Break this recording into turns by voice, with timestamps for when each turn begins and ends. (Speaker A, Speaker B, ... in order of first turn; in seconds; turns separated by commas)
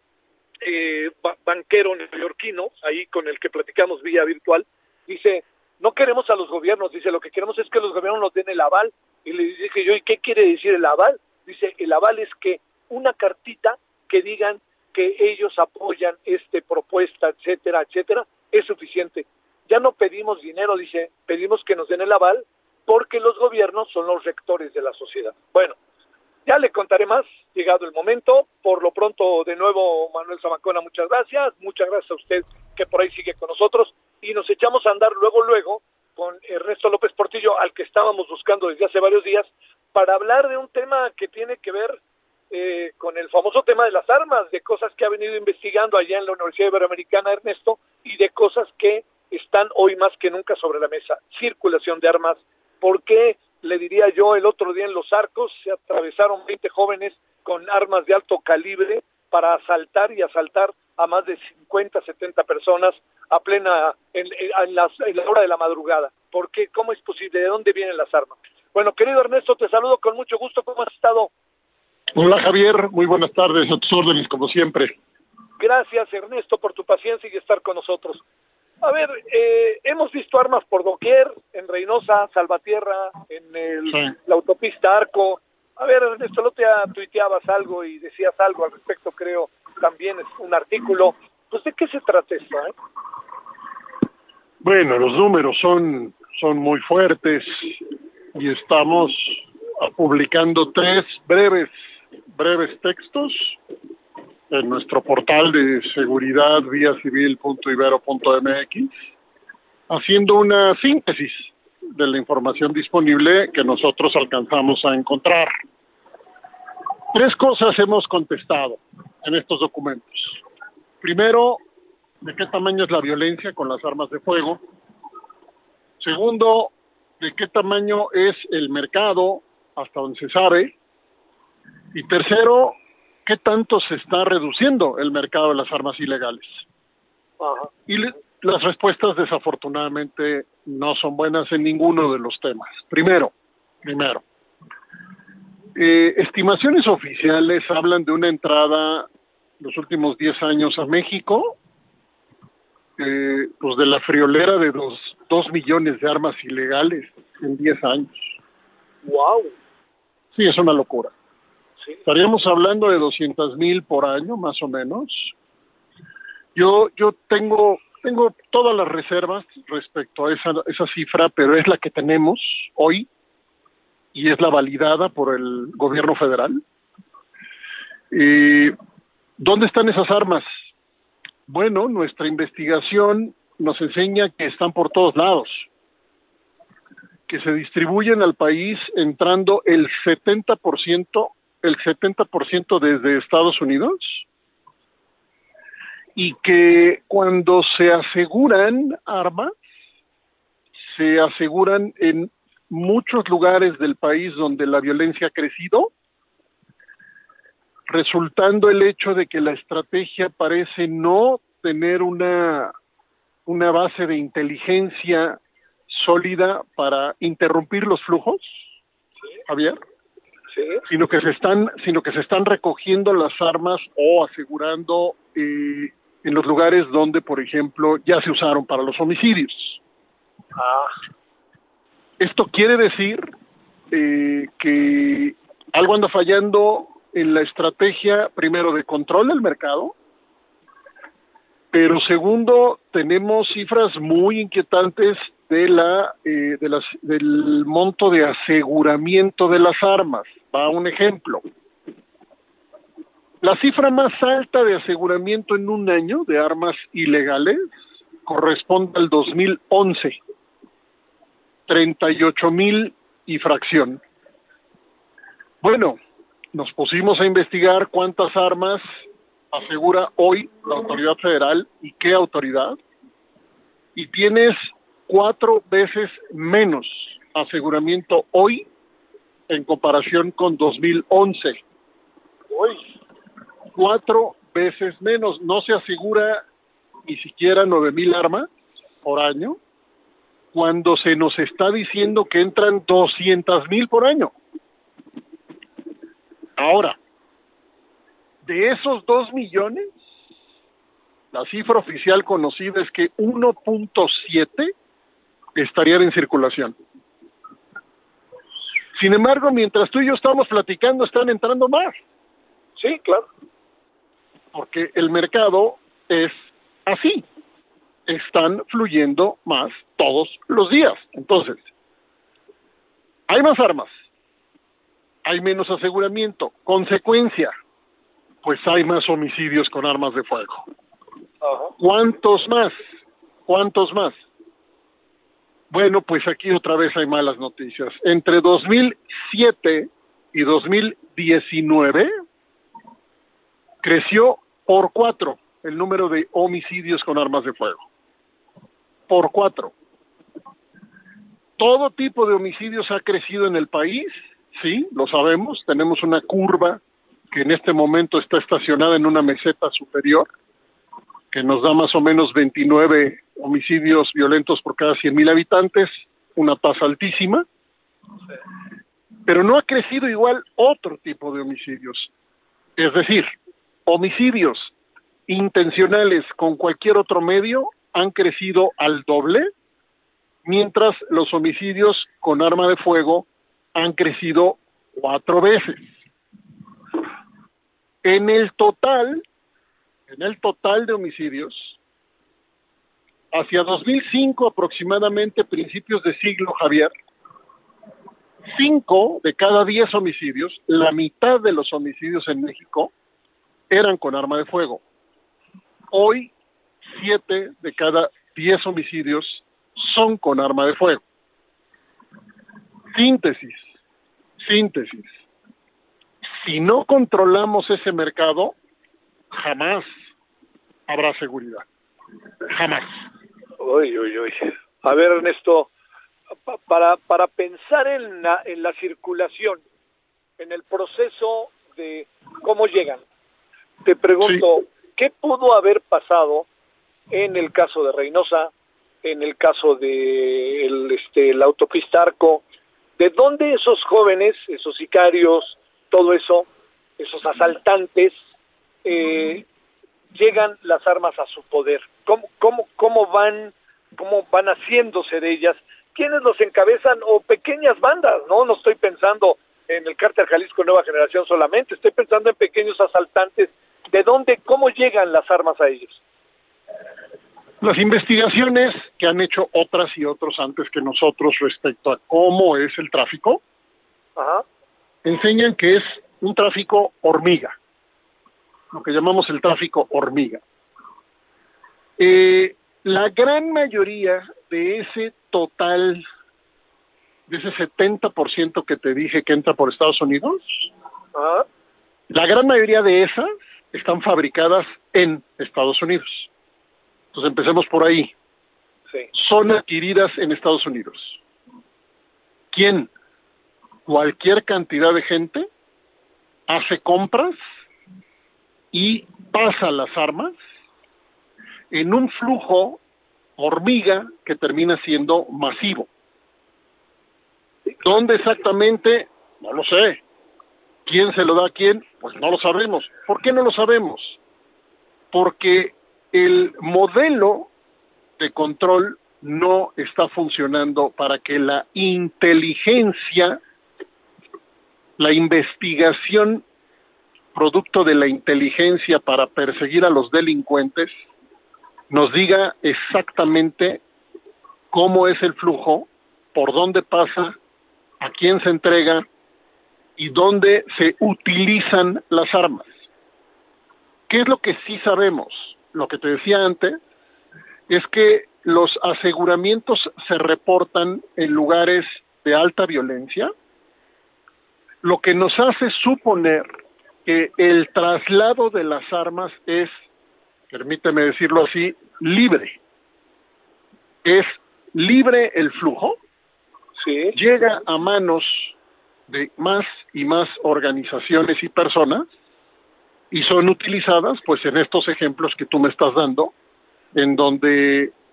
Speaker A: 0.6-25.8, Speaker A: 26.4-42.0, Speaker A: 42.5-71.3, Speaker B: 72.1-74.9, Speaker A: 75.6-78.2, Speaker A: 78.8-92.7, Speaker B: 83.9-84.1, Speaker B: 94.6-97.8, Speaker B: 98.3-101.7, Speaker B: 102.3-103.6, Speaker B: 104.5-108.9, Speaker B: 109.9-115.5, Speaker B: 117.1-120.4, Speaker B: 121.0-121.6, Speaker B: 122.2-124.6, Speaker B: 126.0-130.7, Speaker B: 131.9-136.6, Speaker A: 137.4-137.7, Speaker B: 137.9-143.3, Speaker B: 143.8-144.2, Speaker B: 145.8-149.1, Speaker B: 149.6-151.5, Speaker B: 153.0-158.3, Speaker A: 159.0-159.5, Speaker B: 160.3-161.1, Speaker B: 162.1-165.3, Speaker B: 166.6-173.1, Speaker B: 174.1-176.6, Speaker B: 178.1-178.7, Speaker B: 179.4-180.5, Speaker B: 181.5-185.7, Speaker B: 187.3-194.2, Speaker B: 196.2-199.5, Speaker B: 200.9-205.9, Speaker B: 207.9-212.7, Speaker B: 213.5-215.4, Speaker B: 215.9-218.6, Speaker B: 219.5-219.8, Speaker A: 220.5-220.8, Speaker B: 220.9-229.8, Speaker A: 230.6-230.9, Speaker B: 232.2-233.3, Speaker B: 233.9-239.9, Speaker B: 241.7-251.4, Speaker B: 253.4-257.7, Speaker B: 258.2-260.2, Speaker B: 261.7-264.0, Speaker B: 265.6-266.0, Speaker B: 266.5-268.9, Speaker B: 269.5-272.8, Speaker B: 273.9-278.7, Speaker B: 279.5-281.6, Speaker A: 282.5-282.9, Speaker B: 283.7-286.4, Speaker B: 287.1-288.5, Speaker B: 289.0-289.6, Speaker B: 290.5-294.3, Speaker B: 296.6-297.0, Speaker B: 298.4-299.9, Speaker B: 301.3-304.7, Speaker B: 305.6-306.7, Speaker B: 308.9-311.9, Speaker A: 312.8-313.2, Speaker B: 314.5-317.2, Speaker B: 318.1-321.6, Speaker B: 323.3-323.9, Speaker B: 325.2-327.5, Speaker B: 328.4-330.7, Speaker A: 331.4-331.7, Speaker B: 331.8-332.8, Speaker B: 333.5-334.2, Speaker B: 335.7-342.1, Speaker B: 343.8-347.8, Speaker B: 349.1-349.7, Speaker B: 351.6-360.3, Speaker B: 361.3-367.4, Speaker B: 369.3-372.1, Speaker B: 372.8-373.3, Speaker B: 373.9-374.7, Speaker B: 375.3-379.5, Speaker B: 380.4-385.9, Speaker B: 388.0-389.2, Speaker B: 390.1-391.8, Speaker B: 393.3-396.9, Speaker B: 398.5-402.9, Speaker B: 403.7-404.8, Speaker B: 405.9-406.3, Speaker B: 406.9-411.0, Speaker B: 412.9-413.7, Speaker B: 414.4-415.2, Speaker B: 416.4-418.5, Speaker B: 419.3-419.9, Speaker B: 420.9-421.6, Speaker B: 422.5-423.0, Speaker A: 423.6-425.7, Speaker A: 426.5-429.6, Speaker A: 430.4-433.0, Speaker A: 433.8-436.5, Speaker A: 437.1-438.5, Speaker A: 439.0-442.4, Speaker A: 443.0-446.5, Speaker A: 447.0-448.1, Speaker A: 448.8-449.4, Speaker A: 450.1-466.0, Speaker B: 467.6-473.4, Speaker A: 474.1-474.4, Speaker B: 475.0-477.5, Speaker B: 478.7-480.4, Speaker B: 482.0-486.0, Speaker B: 487.3-490.7, Speaker A: 491.1-491.4, Speaker B: 492.1-496.3, Speaker B: 497.1-498.1, Speaker B: 499.1-501.2, Speaker B: 502.5-502.9, Speaker B: 503.9-505.5, Speaker B: 506.5-507.4, Speaker B: 508.7-510.4, Speaker B: 511.7-512.8, Speaker B: 513.4-515.9, Speaker B: 517.8-520.0, Speaker B: 520.9-524.2, Speaker B: 525.1-527.5, Speaker B: 528.2-533.4, Speaker B: 535.0-536.4, Speaker B: 537.3-540.9, Speaker B: 541.9-543.8, Speaker B: 544.7-547.4, Speaker B: 548.0-549.0, Speaker B: 550.0-552.7, Speaker B: 554.1-556.8, Speaker B: 557.7-563.3, Speaker B: 564.8-566.5, Speaker B: 567.0-569.7, Speaker B: 570.5-572.6, Speaker B: 574.0-576.0, Speaker A: 576.8-577.1, Speaker B: 577.1-578.5, Speaker B: 579.1-582.1, Speaker B: 583.1-586.3, Speaker B: 586.9-587.9